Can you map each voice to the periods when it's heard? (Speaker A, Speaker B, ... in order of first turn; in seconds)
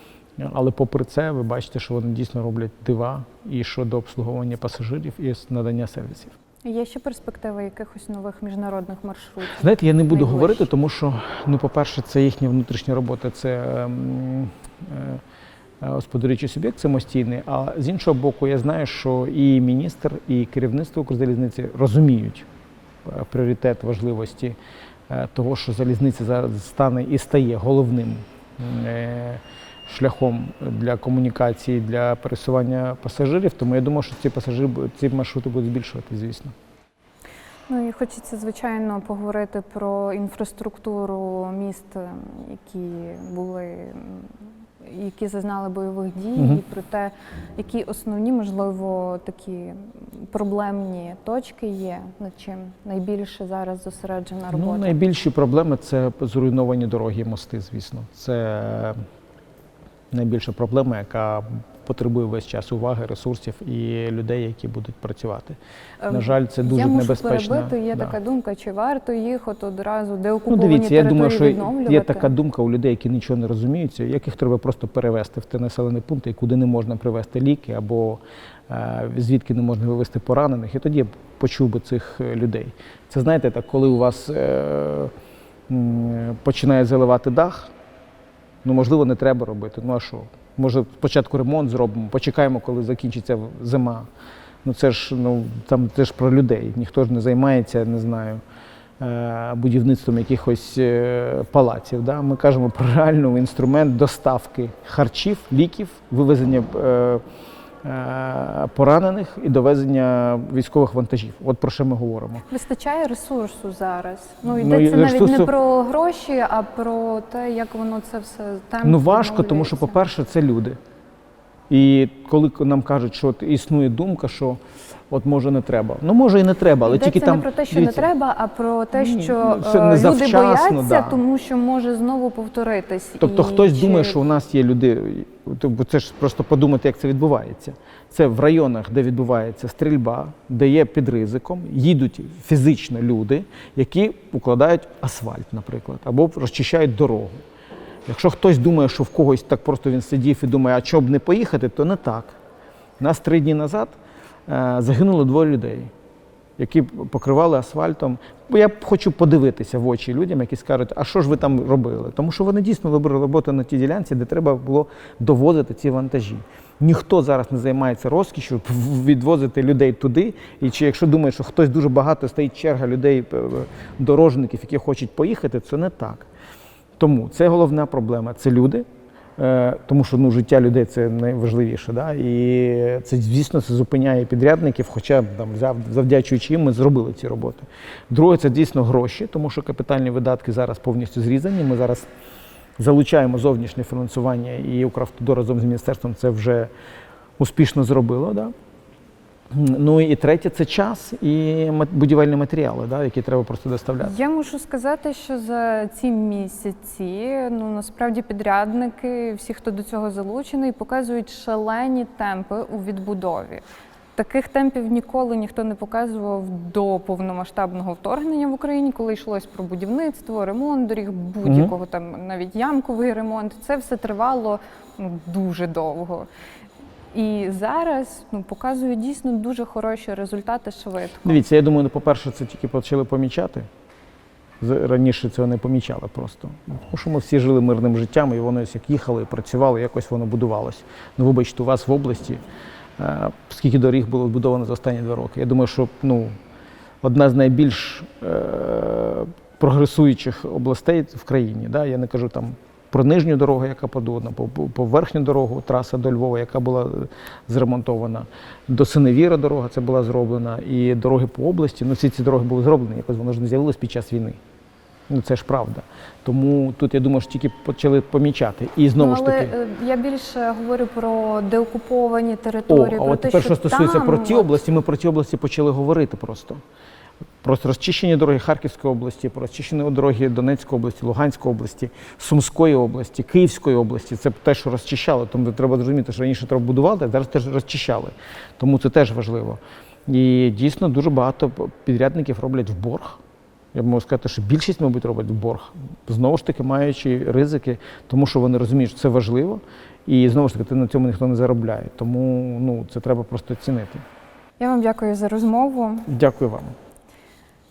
Speaker A: 0.4-6.3, 9.5-15.2, 15.8-22.5, 23.0-24.6, 25.1-36.5, 54.5-59.0, 60.1-65.6, 66.1-68.2, 70.5-85.1, 85.7-87.7, 88.6-94.1, 94.6-98.4, 99.0-107.2, 107.8-112.4, 114.4-115.5, 118.8-120.8, 121.7-128.1, 128.9-131.2, 133.2-147.3, 148.1-152.3, 153.0-153.9, 154.5-155.9, 156.6-176.3, 177.0-178.8, 179.4-192.1, 192.8-196.7, 197.4-198.5, 199.5-204.1, 221.4-221.7, 231.2-233.7, 234.6-242.4, 243.0-246.3, 247.0-264.4, 265.1-269.5, 272.7-276.6, 277.4-293.2, 293.7-304.0, 306.1-306.7
Speaker B: 6.6-10.7, 37.7-55.0, 66.0-72.3, 112.5-120.1, 126.8-134.2, 204.0-213.6, 214.1-226.3, 227.1-231.4, 269.0-274.5, 304.6-306.1